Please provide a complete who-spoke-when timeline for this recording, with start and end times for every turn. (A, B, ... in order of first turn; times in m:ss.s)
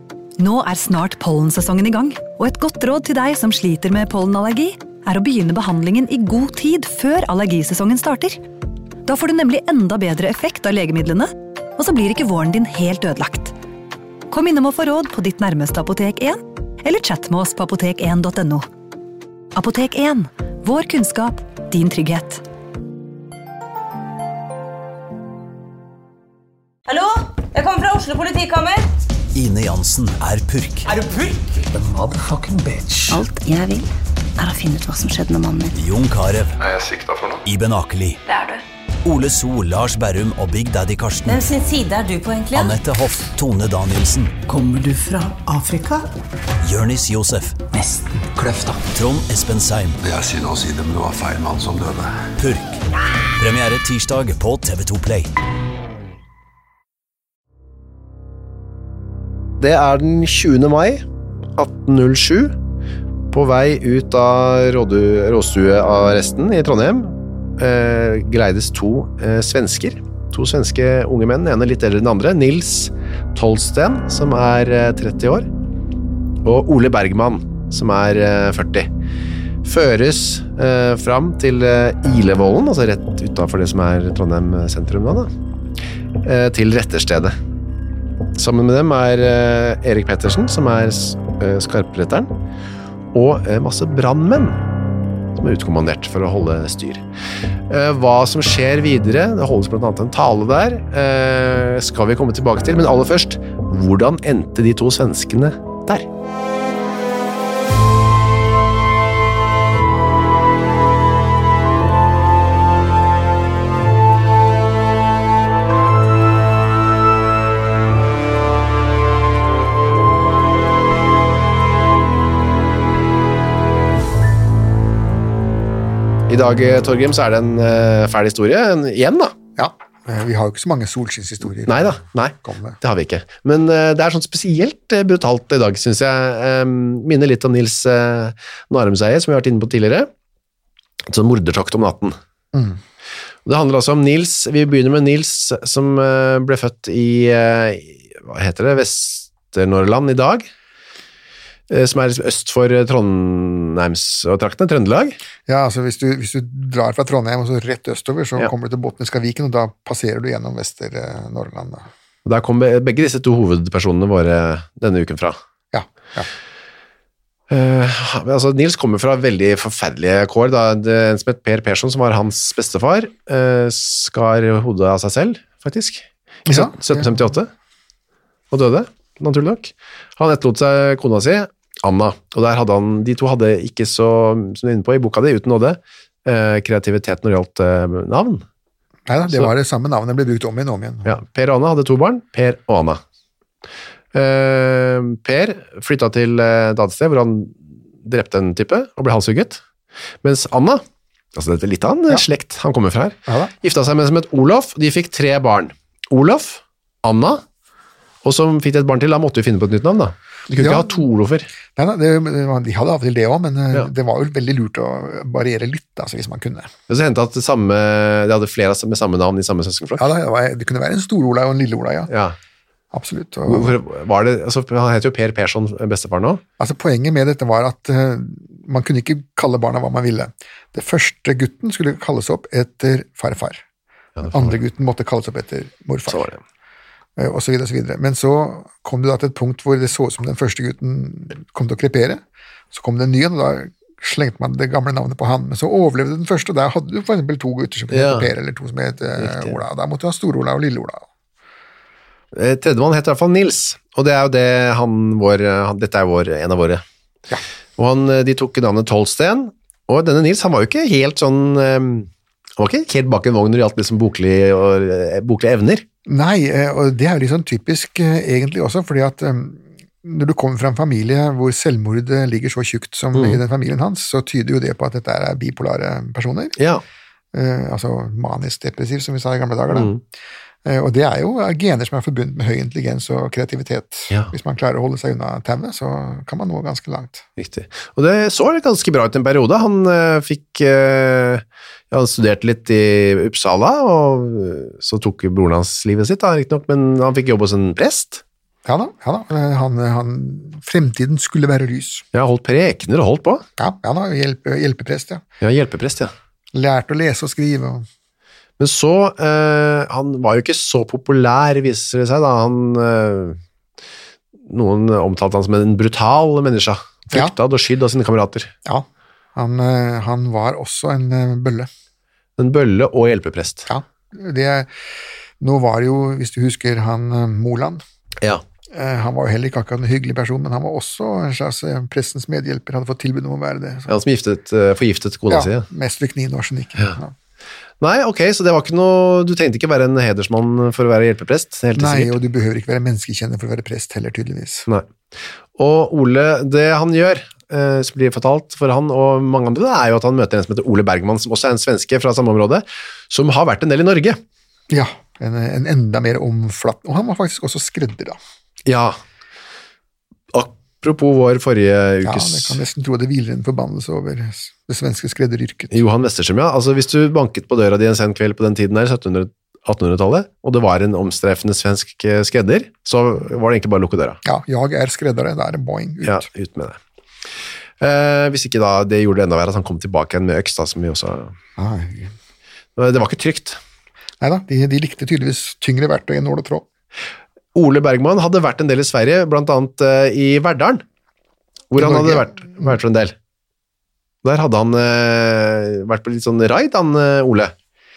0:00.4-0:08.4 A
0:09.0-0:13.5 A
0:14.3-0:18.6 A
0:19.5-0:22.4 A
0:26.9-0:28.8 B
0:29.3-0:30.9 C
0:31.7-0:33.2 D
0:33.1-0:35.8 E
0:35.7-0:36.6 C
0:36.6-0:37.4 F
0:37.4-0:38.2 C
0:38.3-0:38.6 B
0:39.0-0:41.4 C
0:41.2-0:42.8 B
0:42.5-0:44.4 C
0:44.5-0:46.1 D
0:46.6-0:47.6 C
0:47.7-0:48.8 D
0:48.9-0:50.0 C
0:50.0-0:52.2 F
0:52.4-0:52.8 C
0:53.4-0:55.3 C
0:59.6-1:01.0 G
1:01.6-1:02.5 G
1:03.3-1:15.5 G
1:16.4-1:18.9 G
1:19.6-1:25.3 G
1:26.2-1:27.3 G
1:28.4-1:32.3 G
1:33.1-1:34.6 G
1:35.4-1:37.0 G
1:37.7-1:46.1 G
2:06.3-2:09.3 G
2:09.6-2:12.8 H
2:11.7-2:20.1 G
2:21.1-2:22.2 G
2:22.5-2:22.8 H
2:23.4-2:30.5 G
2:31.7-2:35.2 G
2:35.5-2:41.9 H
2:42.2-2:45.4 G
2:45.7-2:46.3 H
2:47.5-2:57.5 G
2:56.5-2:57.2 H
2:58.5-3:08.4 G
3:09.1-3:11.2 H
3:11.0-3:13.0 G
3:14.1-3:19.6 G
3:20.2-3:20.8 G
3:21.3-3:27.4 G
3:23.3-3:23.5 H
3:28.2-3:31.5 G
3:30.5-3:31.0 H
3:31.7-3:36.7 H
3:36.9-3:40.0 G
3:40.0-3:42.1 H
3:42.1-3:42.4 G
3:42.9-3:43.8 H
3:43.5-3:46.4 G
3:46.6-3:53.6 H
3:54.2-3:54.5 G
3:54.3-3:56.3 H
3:56.1-3:56.4 G
3:57.2-4:11.1 H
4:07.9-4:08.3 G
4:09.2-4:09.5 G
4:12.3-4:16.8 G
4:17.8-4:25.8 G
4:26.0-4:36.6 H
4:33.1-4:33.4 G
4:36.6-4:36.8 G
4:37.3-4:39.9 H
4:39.7-4:40.0 G
4:40.6-4:47.2 H
4:47.4-4:58.2 G
4:58.6-5:02.0 H
5:02.1-5:03.4 G
5:03.6-5:05.2 H
5:05.4-5:06.1 G
5:06.5-5:07.8 H
5:08.6-5:13.4 G
5:14.5-5:18.5 G
5:18.6-5:21.7 H
5:22.4-5:23.7 G
5:23.7-5:24.7 H
5:25.4-5:27.8 H
5:28.7-5:34.0 H
5:33.9-5:35.6 G
5:35.3-5:37.1 H
5:37.8-5:42.2 G
5:41.7-5:44.7 H
5:45.6-5:54.2 G
5:54.7-5:58.2 H
5:58.6-5:59.0 G
6:00.3-6:02.6 G
6:02.0-6:05.8 H
6:05.7-6:14.2 G
6:14.2-6:16.2 H
6:16.0-6:16.8 G
6:17.8-6:21.3 G
6:21.6-6:22.1 H
6:22.8-6:23.6 G
6:24.2-6:26.6 H
6:27.5-6:30.8 G
6:31.7-6:33.1 G
6:31.8-6:32.8 H
6:34.2-6:37.5 G